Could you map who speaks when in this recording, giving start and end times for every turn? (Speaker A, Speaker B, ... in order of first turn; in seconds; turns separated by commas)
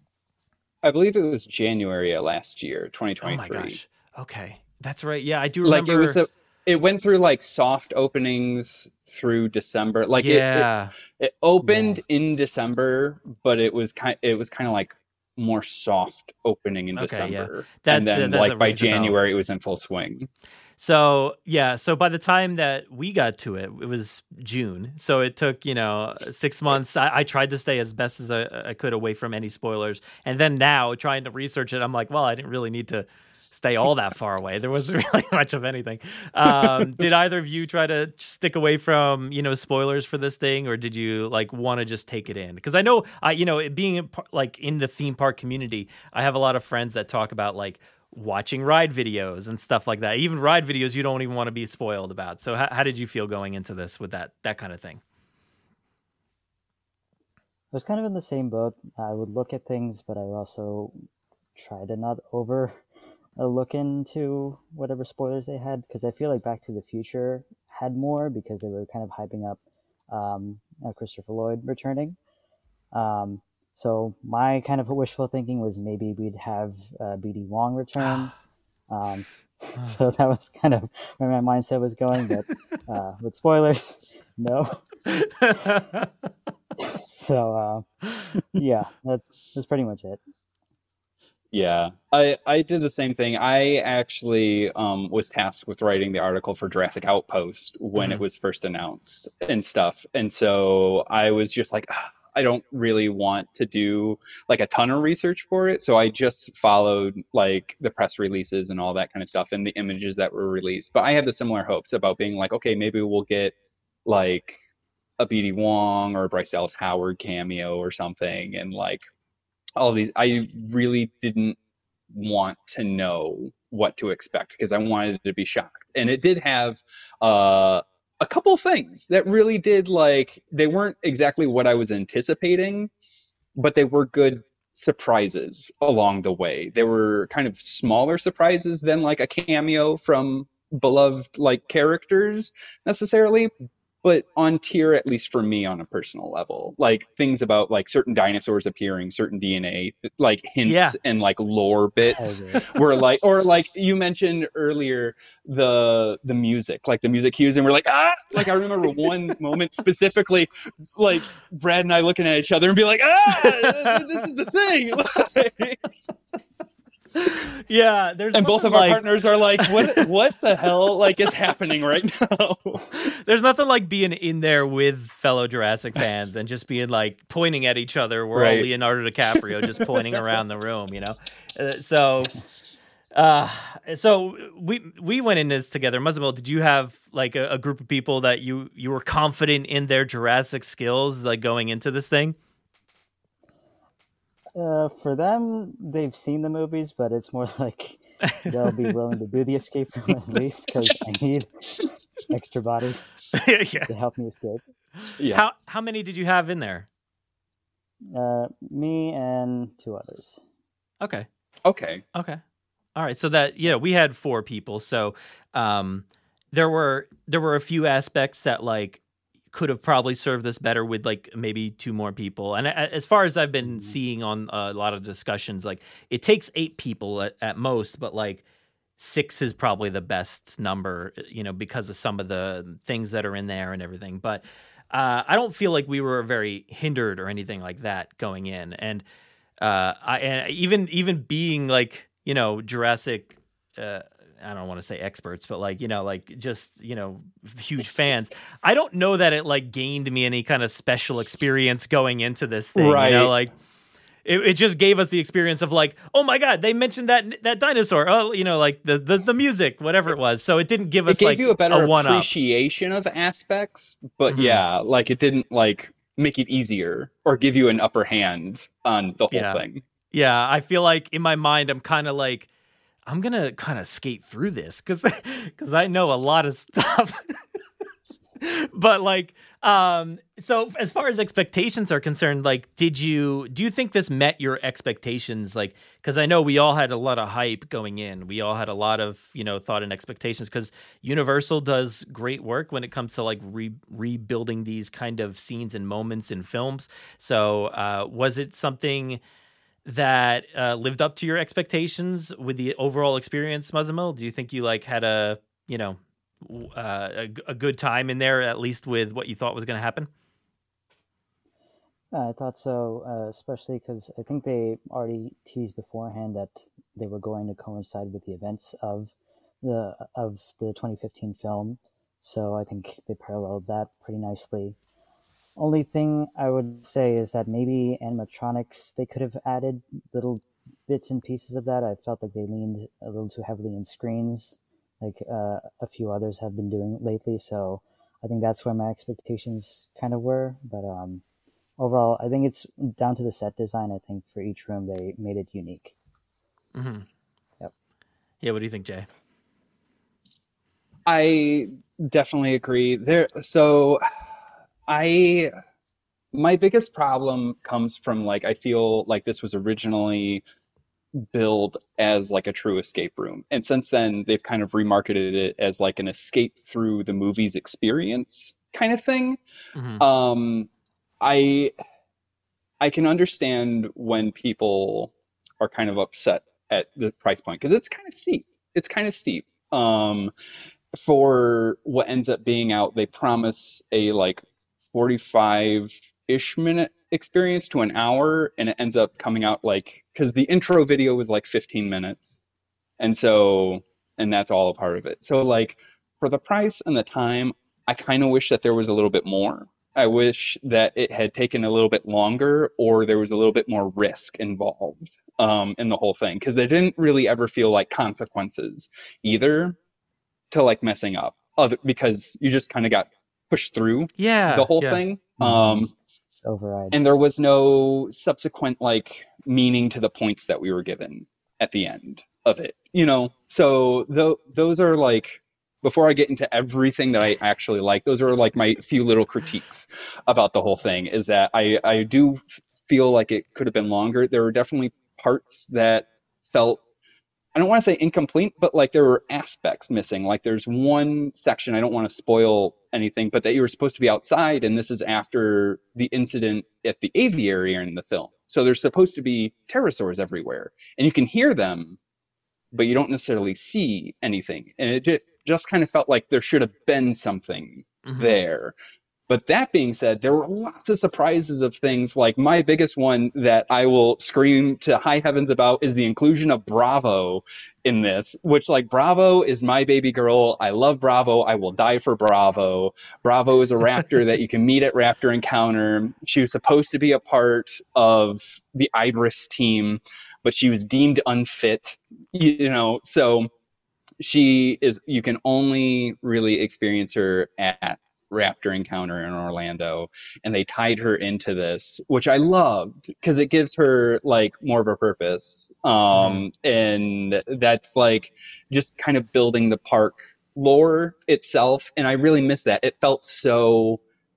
Speaker A: 0.8-3.8, Speaker B: 3.2-6.2, Speaker A: 5.6-20.3, Speaker B: 10.2-10.9, Speaker C: 11.6-12.0, Speaker B: 16.9-19.1, Speaker B: 20.8-55.0, Speaker C: 57.7-61.0, Speaker C: 61.5-62.8, Speaker C: 63.4-72.2, Speaker C: 72.9-78.3, Speaker C: 78.9-84.8, Speaker B: 85.1-86.1, Speaker C: 86.8-87.8, Speaker C: 88.5-90.2, Speaker A: 91.5-113.5, Speaker B: 98.0-98.2, Speaker A: 114.0-114.6, Speaker A: 115.2-119.0, Speaker A: 119.8-121.6, Speaker A: 122.1-132.9, Speaker A: 133.6-143.5, Speaker A: 144.0-165.8, Speaker B: 150.6-151.0, Speaker C: 152.2-152.8, Speaker B: 163.3-164.2, Speaker B: 167.1-169.1, Speaker A: 168.3-173.0, Speaker B: 169.6-170.1, Speaker B: 172.9-182.3, Speaker A: 178.3-178.7, Speaker A: 179.3-179.9, Speaker B: 183.1-192.4, Speaker C: 194.6-203.1, Speaker B: 198.3-198.8, Speaker B: 203.3-203.9, Speaker C: 203.9-204.6, Speaker A: 205.2-205.4, Speaker B: 205.3-206.9, Speaker C: 208.1-210.4, Speaker B: 211.0-211.3, Speaker A: 211.6-212.0, Speaker B: 212.1-212.4, Speaker B: 212.9-219.0, Speaker B: 219.5-228.4, Speaker B: 229.0-239.0, Speaker B: 239.6-253.5, Speaker A: 252.8-253.3, Speaker B: 254.2-262.3, Speaker A: 261.1-269.8, Speaker B: 264.3-264.6, Speaker B: 269.3-272.5, Speaker B: 273.1-277.4, Speaker B: 278.4-299.2, Speaker B: 299.8-310.1, Speaker C: 312.1-324.8, Speaker C: 325.6-341.2, Speaker C: 341.8-345.9, Speaker B: 346.7-347.1, Speaker B: 348.4-349.1, Speaker A: 351.1-354.0, Speaker A: 354.9-355.5, Speaker A: 356.3-360.4, Speaker A: 361.2-369.4, Speaker B: 369.8-370.0, Speaker A: 370.0-370.7, Speaker A: 371.2-371.7, Speaker A: 372.8-380.3, Speaker A: 380.9-392.4, Speaker A: 393.0-409.8, Speaker A: 410.5-415.9, Speaker B: 414.2-415.0, Speaker C: 415.4-415.9, Speaker C: 416.4-417.1, Speaker A: 416.9-436.8, Speaker A: 437.5-452.0, Speaker A: 452.7-458.7, Speaker B: 458.1-458.4, Speaker A: 459.3-483.5, Speaker A: 484.2-504.0, Speaker B: 496.1-496.4